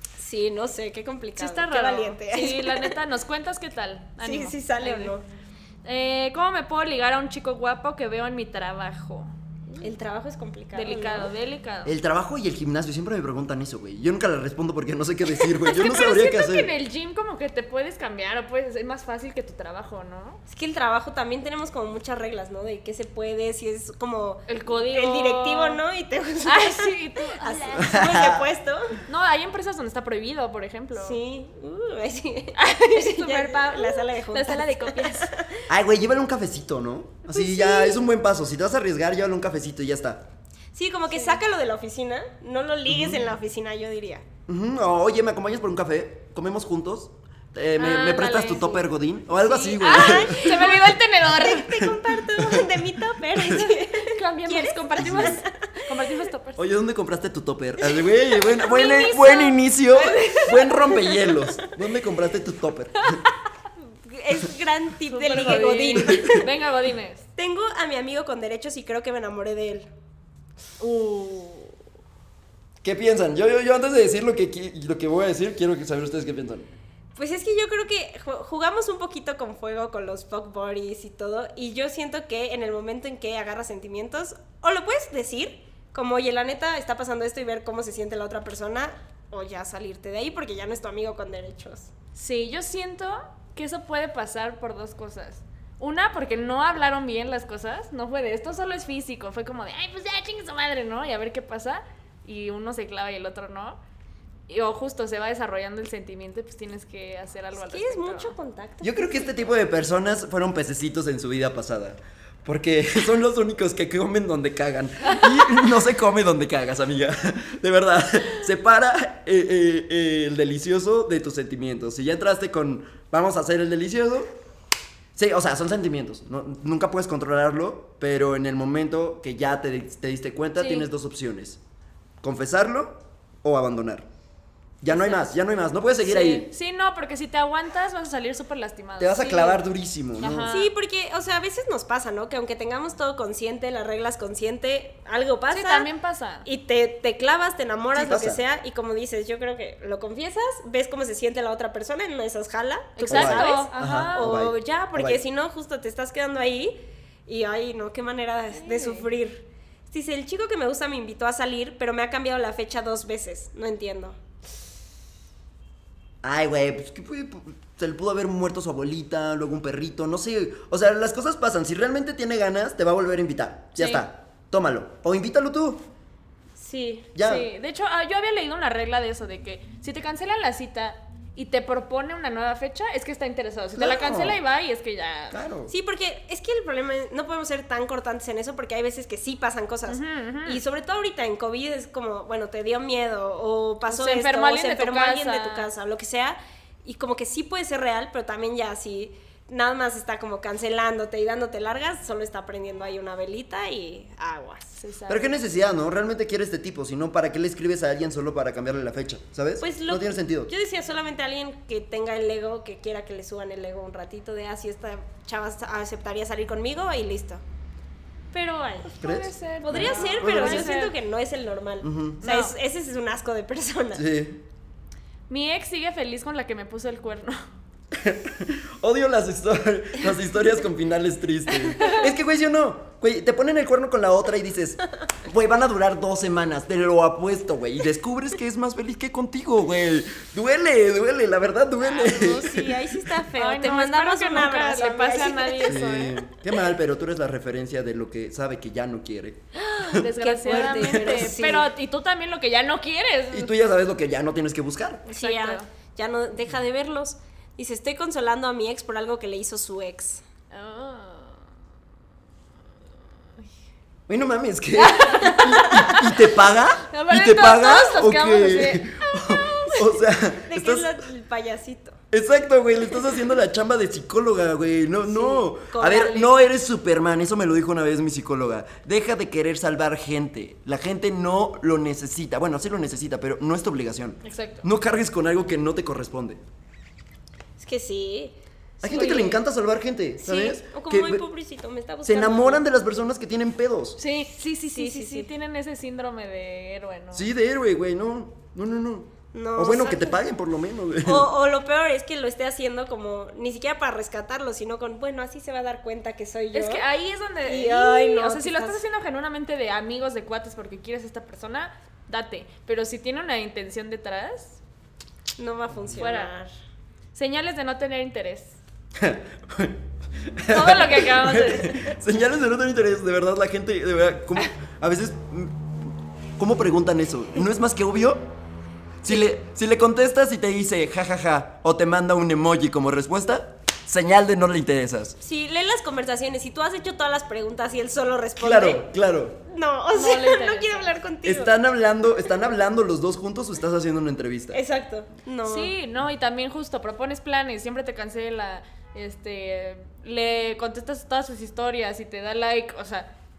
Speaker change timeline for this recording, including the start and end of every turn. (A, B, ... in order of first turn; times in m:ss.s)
0:00.2-0:03.0 A
0:01.4-0:05.1 B
0:04.2-0:05.2 A
0:05.8-0:09.3 B
0:09.8-0:11.3 A
0:10.7-0:11.9 B
0:11.8-0:16.7 C
0:15.6-0:20.4 B
0:20.5-0:29.0 A
0:24.5-0:25.8 B
0:26.4-0:28.1 B
0:27.8-0:28.4 C
0:29.0-0:31.2 B
0:30.9-0:35.6 A
0:32.6-0:35.4 B
0:35.7-0:40.2 C
0:37.3-0:38.0 A
0:40.7-0:44.2 A
0:42.9-0:43.3 C
0:44.5-0:50.4 C
0:47.8-0:48.8 B
0:49.4-0:52.0 B
0:49.6-0:56.2 A
0:52.4-0:52.8 C
0:53.6-0:56.6 B
0:55.0-0:55.4 C
0:56.6-1:03.2 C
0:58.4-1:00.7 B
1:00.2-1:01.7 A
1:03.8-1:06.5 A
1:05.1-1:07.2 B
1:07.4-1:09.9 A
1:10.8-1:11.7 B
1:12.8-1:16.7 C
1:17.2-1:31.9 A
1:32.2-1:43.8 B
1:44.5-1:48.3 B
1:47.5-1:49.6 A
1:48.8-2:04.3 C
2:05.1-2:11.6 C
2:10.6-2:10.9 B
2:12.2-2:14.1 C
2:14.8-2:16.5 C
2:14.9-2:15.4 B
2:16.0-2:19.6 B
2:19.0-2:20.5 C
2:20.2-2:20.7 B
2:20.5-2:25.9 A
2:25.5-2:26.5 B
2:26.4-2:44.2 A
2:27.9-2:28.4 C
2:33.0-2:34.3 B
2:33.0-2:35.2 C
2:38.6-2:39.1 B
2:46.2-2:55.8 C
2:53.8-2:54.0 B
2:56.6-2:57.1 A
2:57.1-2:57.5 C
2:57.2-3:05.4 B
3:03.7-3:04.4 C
3:05.3-3:05.7 C
3:05.7-3:24.8 A
3:09.9-3:10.6 B
3:13.9-3:15.7 B
3:24.8-3:25.3 B
3:25.1-3:30.5 C
3:29.6-3:37.4 A
3:38.3-3:38.9 A
3:38.8-3:40.9 B
3:39.0-3:40.7 C
3:39.6-3:44.0 A
3:41.8-3:42.2 C
3:42.2-3:42.5 B
3:43.9-3:44.4 C
3:45.3-3:47.4 B
3:47.9-4:02.8 C
4:01.8-4:05.9 A
4:03.3-4:06.2 B
4:05.6-4:11.2 C
4:09.7-4:13.5 B
4:10.2-4:11.7 A
4:13.3-4:15.1 C
4:15.1-4:15.6 B
4:15.1-4:20.2 A
4:20.5-4:21.5 B
4:24.1-4:31.0 C
4:24.8-4:26.3 B
4:26.9-4:29.8 B
4:30.4-4:32.0 A
4:32.1-4:46.4 C
4:35.1-4:36.4 A
4:44.2-4:44.6 B
4:47.6-4:49.4 A
4:48.8-4:51.2 C
4:48.9-4:49.3 B
4:50.2-4:52.6 A
4:52.0-4:54.0 C
4:54.0-4:57.3 B
4:54.6-4:55.3 A
4:57.1-5:01.3 C
4:59.3-5:00.2 A
5:01.0-5:06.8 A
5:06.5-5:14.6 B
5:07.4-5:08.8 A
5:15.4-5:16.5 A
5:16.0-5:16.3 B
5:17.1-5:18.6 B
5:19.0-5:25.6 C
5:20.5-5:21.8 B
5:26.4-5:28.2 C
5:29.0-5:35.2 C
5:35.2-5:38.9 A
5:38.4-5:39.4 C
5:39.4-5:41.6 A
5:39.9-5:40.9 B
5:41.2-5:44.6 C
5:44.5-5:45.7 A
5:45.4-5:53.1 B